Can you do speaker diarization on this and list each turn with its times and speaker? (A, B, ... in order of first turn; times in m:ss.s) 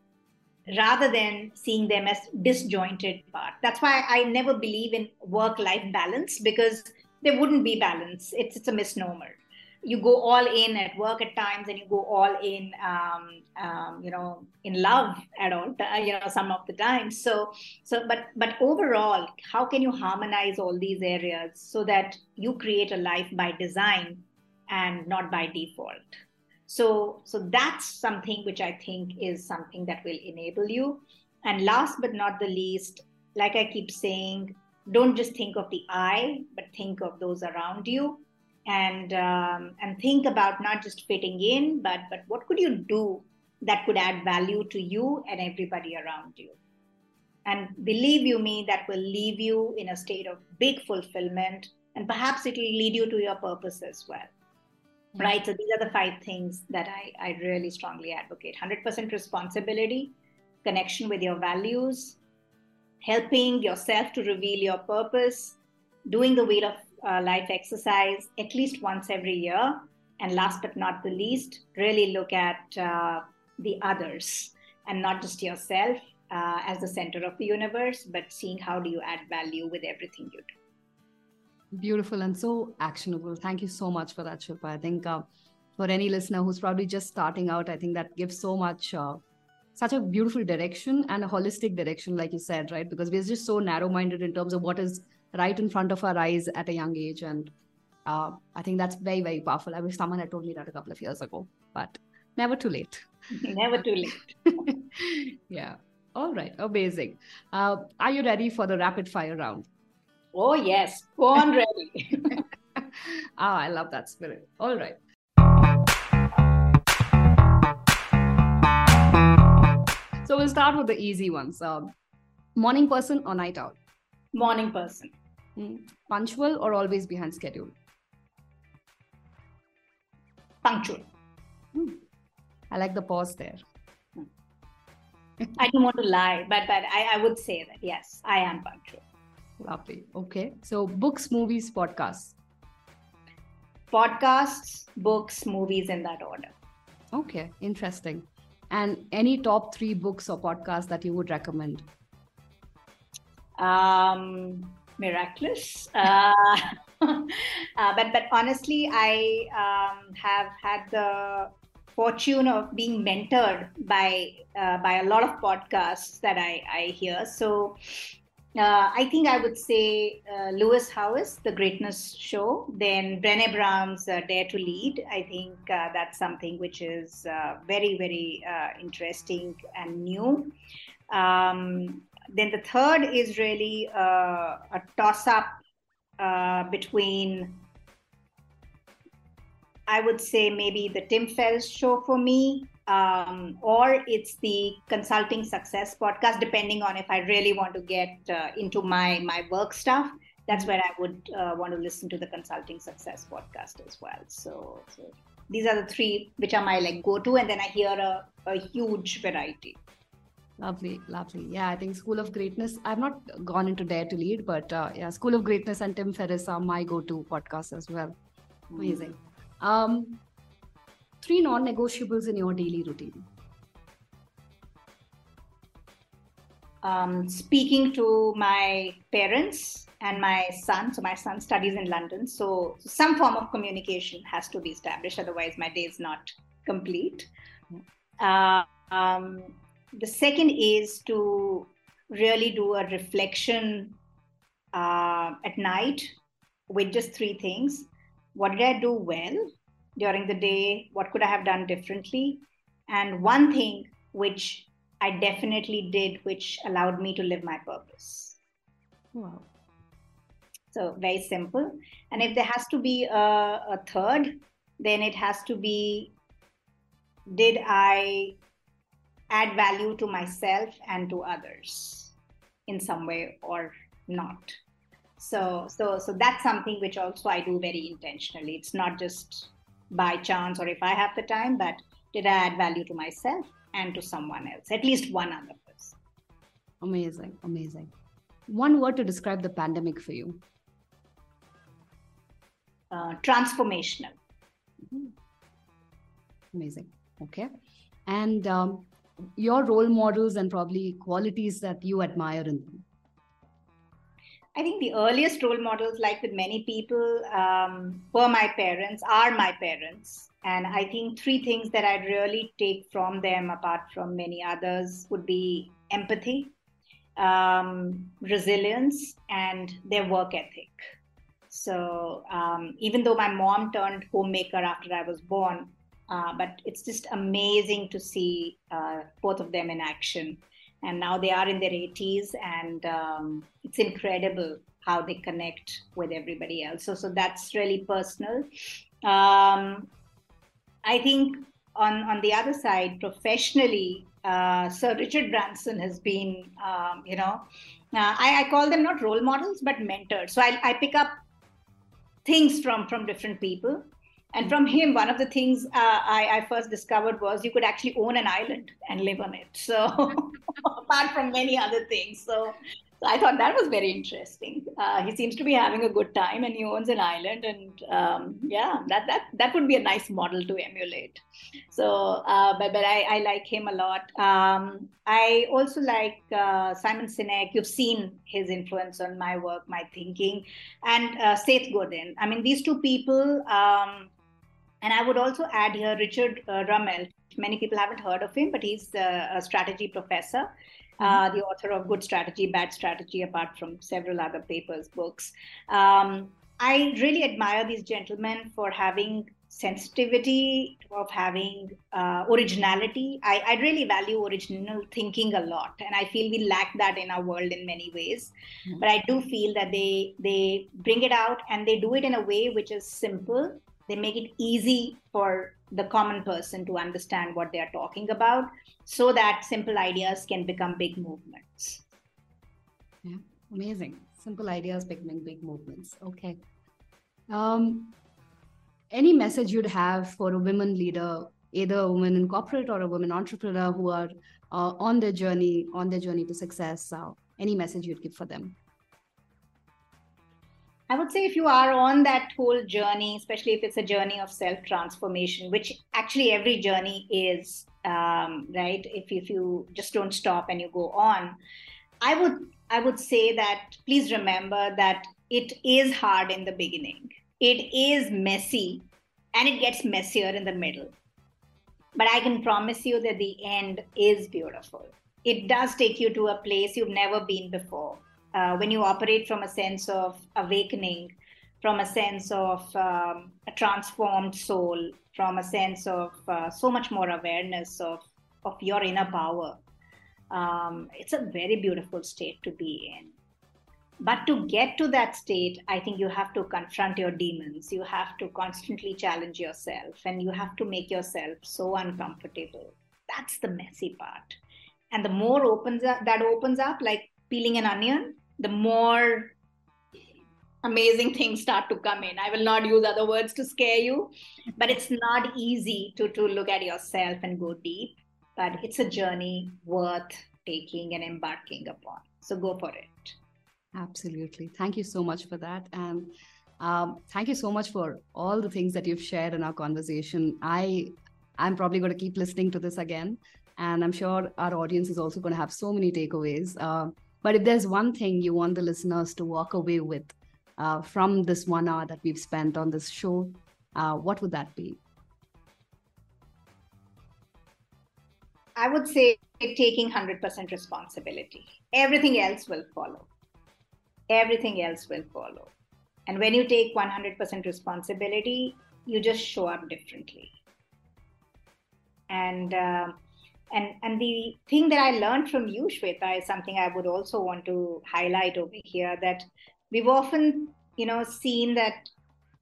0:00.7-0:46.6 A
0:47.4-0:54.3 A
0:55.2-1:00.1 A
1:00.6-1:02.2 A
1:03.0-1:20.5 A
1:21.7-1:25.2 B
1:25.8-1:29.2 B
1:29.8-1:37.5 B
1:38.0-1:43.1 B
1:43.3-1:44.3 A
1:44.5-1:49.7 B
1:50.3-1:52.4 A
1:52.8-1:55.0 B
2:00.2-2:01.9 B
2:02.6-2:03.8 B
2:04.3-2:05.1 A
2:05.6-2:07.8 B
2:10.6-2:11.1 A
2:11.7-2:12.0 B
2:12.7-2:13.6 B
2:15.5-2:19.0 A
2:19.6-2:22.4 B
2:23.9-2:26.5 A
2:27.1-2:31.8 B
2:33.6-2:47.8 A
2:48.6-3:00.5 A
3:01.1-3:05.6 A
3:06.2-3:07.6 A
3:09.9-3:29.8 A
3:30.6-3:38.2 B
3:38.7-3:39.0 A
3:38.8-3:40.2 B
3:41.2-3:43.3 B
3:46.8-3:57.3 A
3:58.2-4:04.0 A
4:04.7-4:06.1 A
4:06.7-4:18.4 A
4:19.1-4:19.5 B
4:20.7-4:26.1 A
4:27.3-4:28.4 A
4:29.3-4:32.1 A
4:32.7-4:34.6 A
4:35.2-4:46.0 A
4:46.8-4:47.9 B
4:48.5-4:50.4 B
4:52.9-4:54.1 A
4:56.5-4:57.5 B
4:58.1-5:02.8 B
5:04.6-5:16.5 A
5:17.2-5:20.8 A
5:21.5-5:39.9 A
5:40.8-5:51.1 A
5:52.2-6:24.1 A
6:24.8-7:01.8 A
7:03.0-7:06.4 B
7:07.3-7:07.9 B
7:08.9-7:18.6 B
7:20.9-7:31.4 A
7:32.0-7:40.9 A
7:41.9-7:59.6 A
8:00.3-8:03.1 A
8:04.0-8:14.4 A
8:14.9-8:19.3 A
8:20.6-8:33.2 A
8:33.7-8:54.8 B
8:58.6-9:03.1 A
9:04.1-9:05.5 A
9:06.1-9:10.3 A
9:12.1-9:13.0 A
9:13.5-9:21.9 A